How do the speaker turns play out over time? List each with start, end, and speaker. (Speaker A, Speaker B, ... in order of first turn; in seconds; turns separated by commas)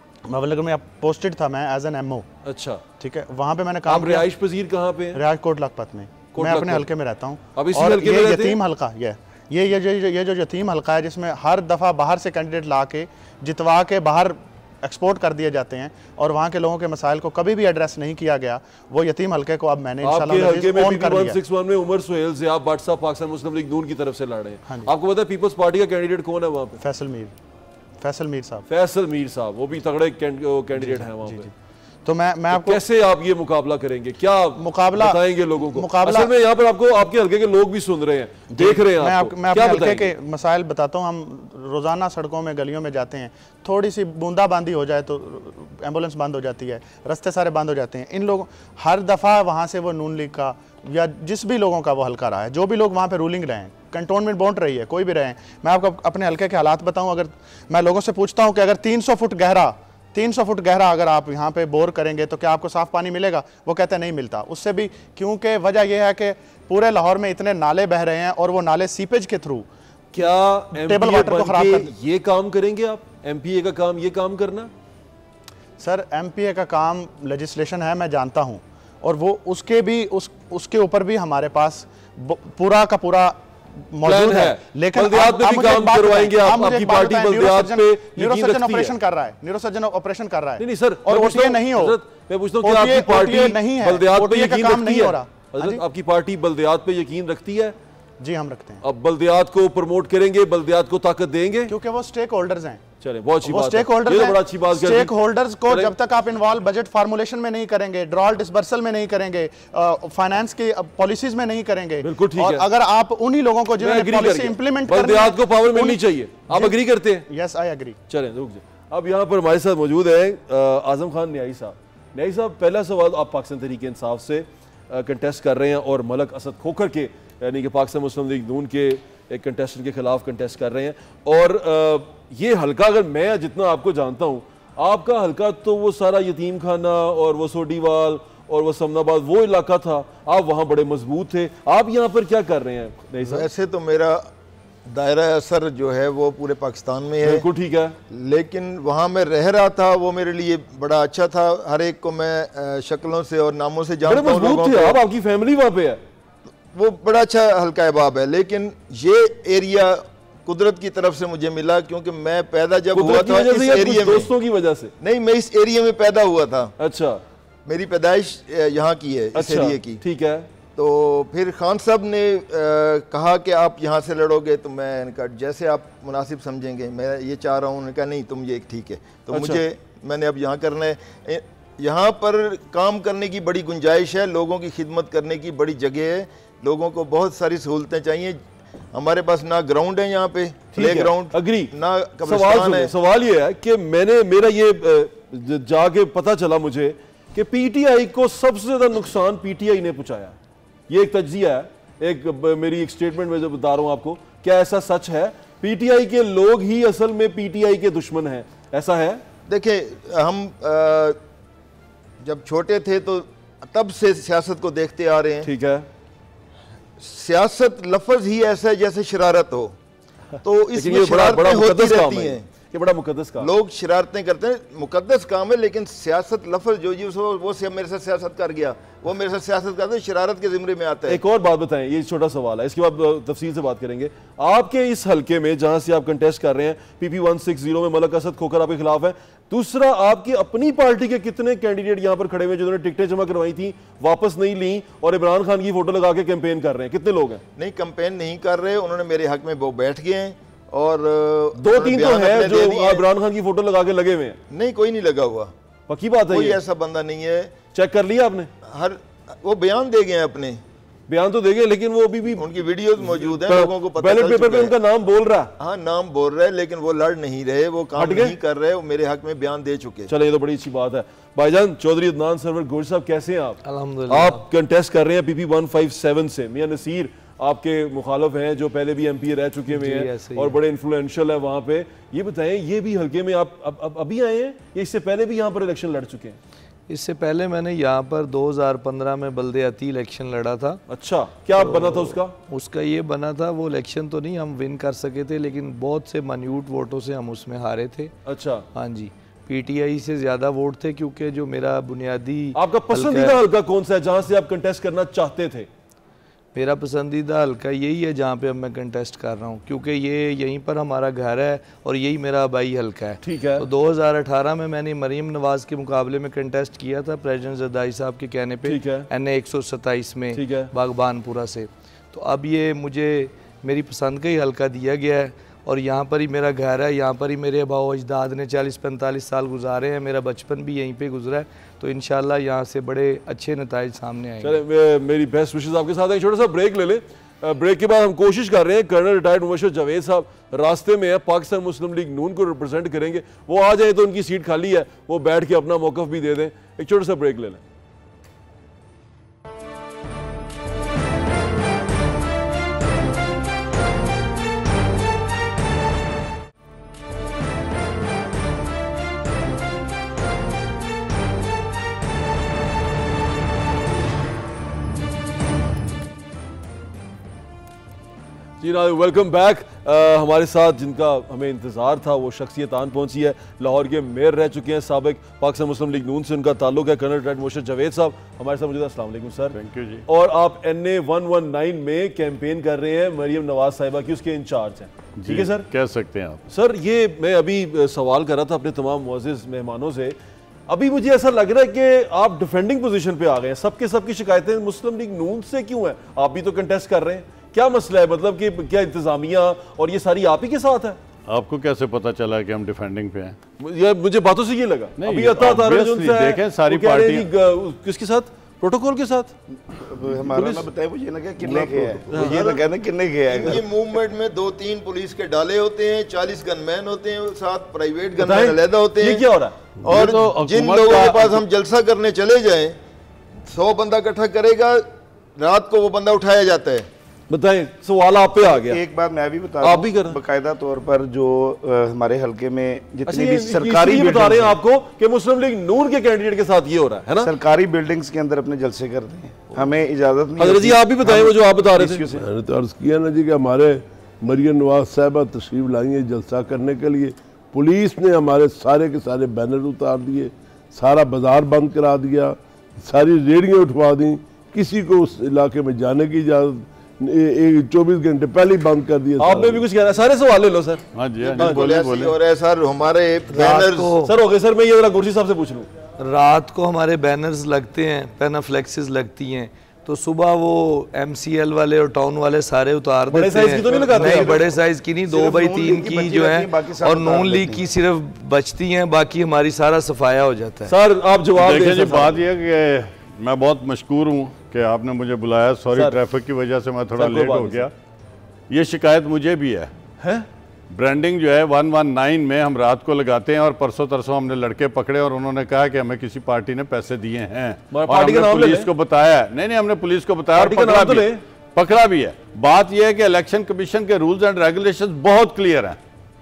Speaker A: 0.3-2.2, Speaker B: 2.4-2.8, Speaker A: 3.0-4.3, Speaker B: 3.9-5.2, Speaker A: 5.1-21.4, Speaker B: 6.3-6.8, Speaker B: 7.5-8.6, Speaker B: 20.0-26.8, Speaker A: 26.8-27.3, Speaker A: 28.0-28.6, Speaker B: 28.7-31.5, Speaker A: 30.8-31.5, Speaker A: 32.0-32.8, Speaker B: 32.5-40.1, Speaker A: 34.6-36.3, Speaker A: 38.5-69.7, Speaker B: 70.1-74.7, Speaker A: 70.7-71.9, Speaker A: 75.8-92.0, Speaker B: 84.0-88.9, Speaker B: 90.6-97.7, Speaker A: 92.6-95.8, Speaker A: 98.2-98.8, Speaker B: 98.8-101.7, Speaker A: 101.7-102.8, Speaker B: 103.0-105.1, Speaker A: 103.4-118.0, Speaker B: 105.7-105.9, Speaker B: 112.0-112.7, Speaker B: 113.8-117.2, Speaker B: 118.1-143.5, Speaker C: 143.2-144.3, Speaker C: 144.8-147.4, Speaker B: 147.2-147.9, Speaker C: 148.1-155.0, Speaker B: 154.0-156.0, Speaker C: 156.7-164.3, Speaker B: 162.9-164.9, Speaker C: 165.0-166.7, Speaker B: 166.8-167.2, Speaker C: 167.7-170.0, Speaker B: 169.3-170.5, Speaker C: 170.7-188.4, Speaker B: 179.3-179.6, Speaker C: 188.9-192.9, Speaker B: 190.7-191.7, Speaker B: 192.2-200.3, Speaker B: 200.9-209.2, Speaker C: 209.5-211.2, Speaker C: 212.2-215.5, Speaker B: 215.4-215.9, Speaker C: 217.0-219.7, Speaker C: 220.4-222.4, Speaker B: 220.7-223.5, Speaker C: 223.4-231.2, Speaker B: 231.1-247.4, Speaker C: 247.6-253.0, Speaker B: 251.6-254.4, Speaker C: 254.5-255.5, Speaker B: 255.9-256.6, Speaker C: 256.3-257.5, Speaker B: 257.7-258.5, Speaker C: 258.7-260.6, Speaker B: 261.1-265.5, Speaker C: 262.3-264.7, Speaker C: 265.6-270.1, Speaker B: 267.9-268.4, Speaker B: 270.1-286.4, Speaker D: 273.6-274.4, Speaker D: 279.7-280.5, Speaker D: 286.9-290.8, Speaker B: 290.9-292.3, Speaker D: 291.6-298.1, Speaker B: 298.2-298.6, Speaker D: 298.7-303.4, Speaker B: 302.5-305.7, Speaker D: 306.5-334.6, Speaker B: 313.2-313.6, Speaker B: 318.6-319.1, Speaker B: 320.3-320.7, Speaker B: 334.4-347.6, Speaker B: 368.6-385.7, Speaker E: 379.5-380.0, Speaker E: 385.2-386.4, Speaker B: 386.5-390.1, Speaker B: 390.7-401.0, Speaker E: 401.3-403.4, Speaker B: 403.6-409.3, Speaker E: 405.0-407.2, Speaker F: 409.7-413.6, Speaker B: 410.3-410.7, Speaker G: 411.4-412.0, Speaker B: 412.1-412.6, Speaker C: 412.1-412.6, Speaker C: 413.3-419.2, Speaker B: 418.2-419.5, Speaker C: 419.8-422.8, Speaker E: 419.9-421.4, Speaker C: 423.5-424.9, Speaker C: 425.4-426.9, Speaker B: 427.3-428.8, Speaker F: 428.4-434.6, Speaker B: 429.6-430.2, Speaker B: 433.1-437.3, Speaker F: 437.2-442.2, Speaker B: 440.4-442.0, Speaker G: 442.1-459.6, Speaker B: 459.2-460.8, Speaker E: 460.9-462.1, Speaker C: 461.2-463.9, Speaker D: 463.3-464.1, Speaker B: 464.0-465.7, Speaker D: 466.0-480.7, Speaker B: 473.1-474.4, Speaker F: 473.5-477.7, Speaker B: 480.7-482.2, Speaker E: 481.3-487.7, Speaker B: 487.0-487.7, Speaker E: 488.5-489.7, Speaker B: 490.0-490.3, Speaker E: 490.7-505.8, Speaker B: 497.7-498.7, Speaker B: 500.3-501.2